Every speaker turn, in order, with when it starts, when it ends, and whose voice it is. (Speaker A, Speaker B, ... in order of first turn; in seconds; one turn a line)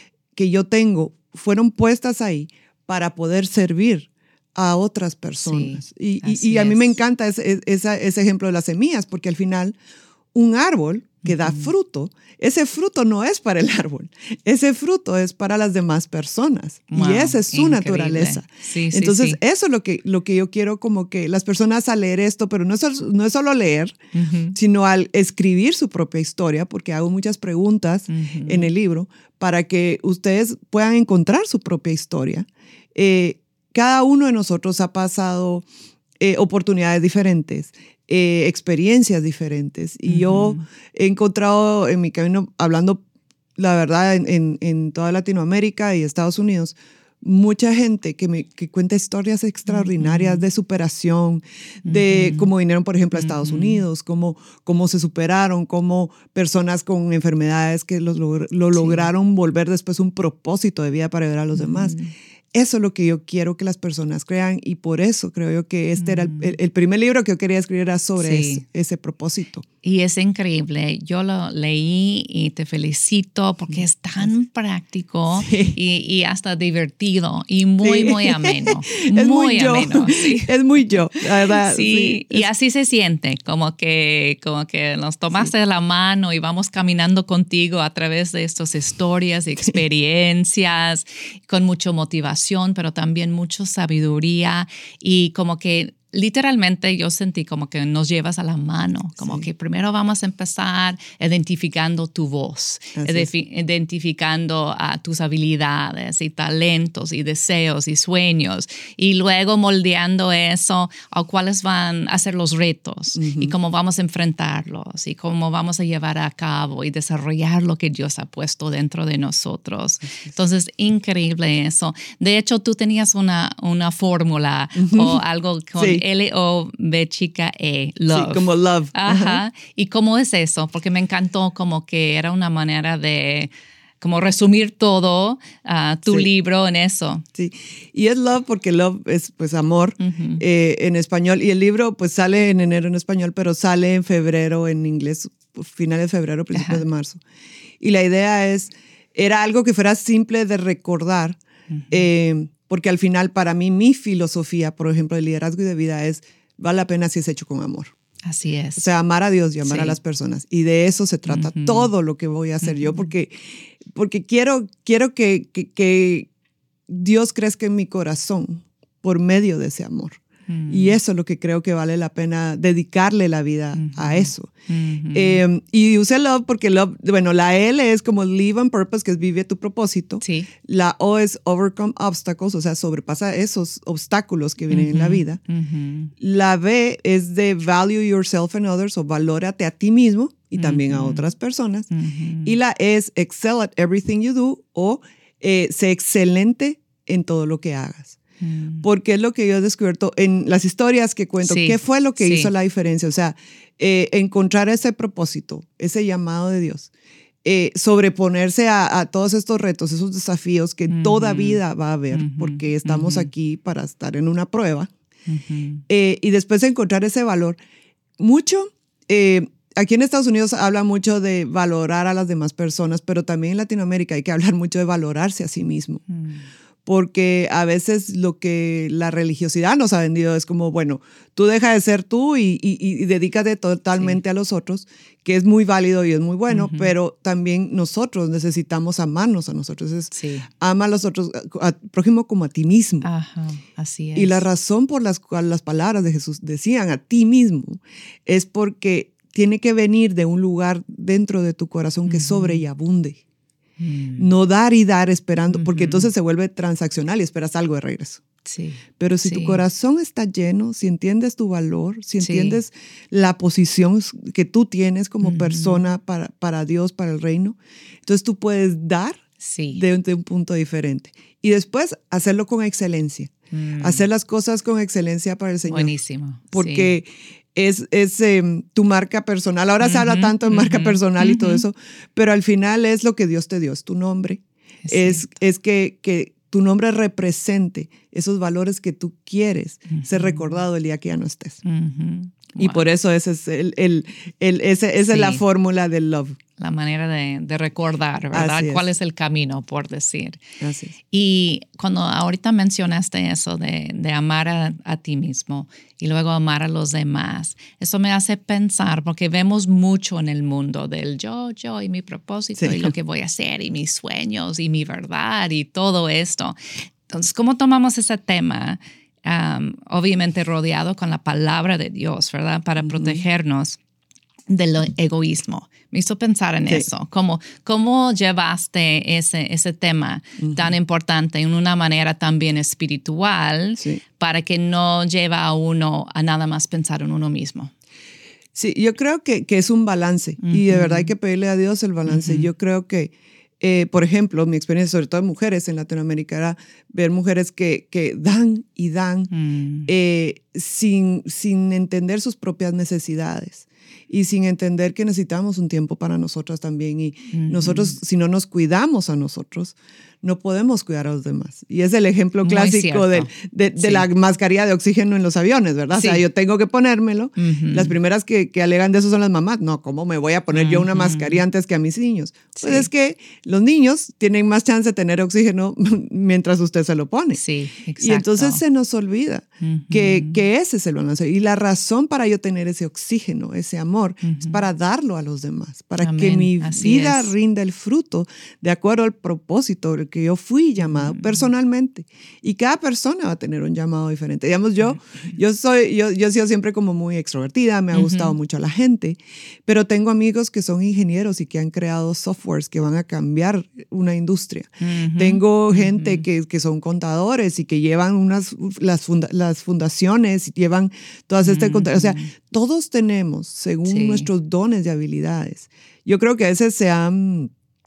Speaker A: 0.3-9.8
Speaker B: 5.4-7.0
Speaker A: 10.3-24.0
Speaker B: 11.2-11.7
Speaker B: 16.9-19.4
Speaker B: 24.1-24.6
Speaker A: 24.5-35.7
Speaker B: 28.1-28.7
Speaker A: 36.2-43.0
Speaker B: 40.1-40.6
Speaker A: 43.6-62.0
Speaker B: 49.7-50.5
Speaker B: 51.9-52.5
Speaker B: 53.1-53.8
Speaker B: 58.7-59.1
Speaker B: 61.5-62.1
Speaker A: 62.5-69.6
Speaker B: 66.0-66.5
Speaker B: 68.2-68.6
Speaker B: 69.8-80.5
Speaker A: 75.4-75.8
Speaker A: 77.8-82.5
Speaker B: 81.2-137.2
Speaker A: 99.2-99.5
Speaker A: 103.0-103.3
Speaker A: 113.2-113.5
Speaker A: 124.8-125.2
Speaker A: 125.8-126.0
Speaker A: 128.1-129.4
Speaker A: 137.4-147.2
Speaker B: 140.0-140.4
Speaker B: 146.5-146.8
Speaker A: 147.8-151.4
Speaker B: 151.7-152.1
Speaker A: 151.9-157.9
Speaker B: 158.2-158.8
Speaker A: 158.8-166.3
Speaker B: 159.6-160.0
Speaker B: 161.3-161.9
Speaker B: 162.6-163.1
Speaker A: 166.9-174.5
Speaker B: 170.5-171.0
Speaker B: 173.8-175.4
Speaker A: 175.1-185.4
Speaker B: 180.2-180.5
Speaker B: 184.7-186.1
Speaker A: 186.2-191.9
Speaker B: 190.6-191.3
Speaker B: 191.9-192.5
Speaker A: 192.4-198.2
Speaker B: 198.4-198.8
Speaker A: 198.8-206.9
Speaker B: 201.4-202.5
Speaker A: 207.4-214.9
Speaker B: 210.9-211.6
Speaker B: 212.1-213.3
Speaker B: 215.3-215.8
Speaker A: 215.9-217.6
Speaker A: 218.2-226.0
Speaker B: 226.1-226.4
Speaker A: 226.9-243.1
Speaker B: 236.5-236.9
Speaker B: 240.1-240.5
Speaker B: 243.0-244.5
Speaker A: 244.2-253.2
Speaker B: 252.1-252.6
Speaker B: 253.8-254.3
Speaker A: 254.2-258.2
Speaker B: 255.5-256.1
Speaker B: 258.4-259.6
Speaker A: 259.0-269.2
Speaker B: 262.2-262.6
Speaker B: 265.2-265.8
Speaker B: 269.4-269.8
Speaker A: 269.7-275.9
Speaker B: 273.5-274.1
Speaker B: 275.7-276.9
Speaker A: 276.5-291.6
Speaker B: 279.8-281.6
Speaker B: 284.9-285.2
Speaker B: 289.9-290.5
Speaker B: 291.6-292.8
Speaker A: 292.6-296.4
Speaker B: 295.1-295.4
Speaker B: 296.6-300.4
Speaker A: 298.3-298.9
Speaker A: 300.6-300.9
Speaker B: 301.1-316.6
Speaker A: 312.6-312.9
Speaker B: 317.1-323.8
Speaker A: 322.8-323.2
Speaker B: 324.5-337.7
Speaker A: 330.4-330.7
Speaker A: 338.6-349.3
Speaker B: 340.4-341.1
Speaker B: 342.1-342.5
Speaker B: 349.3-349.9
Speaker A: 349.9-377.4
Speaker B: 357.3-358.0
Speaker B: 362.4-364.1
Speaker B: 365.9-366.2
Speaker B: 367.4-367.9
Speaker B: 370.5-371.4
Speaker B: 372.6-372.9
Speaker B: 377.4-378.6
Speaker A: 378.0-417.5
Speaker B: 379.6-380.4
Speaker B: 384.2-384.6
Speaker B: 386.0-387.3
Speaker B: 390.8-391.5
Speaker B: 394.8-395.4
Speaker B: 397.9-398.4
Speaker B: 404.8-406.3
Speaker B: 411.4-412.3
Speaker B: 413.9-414.3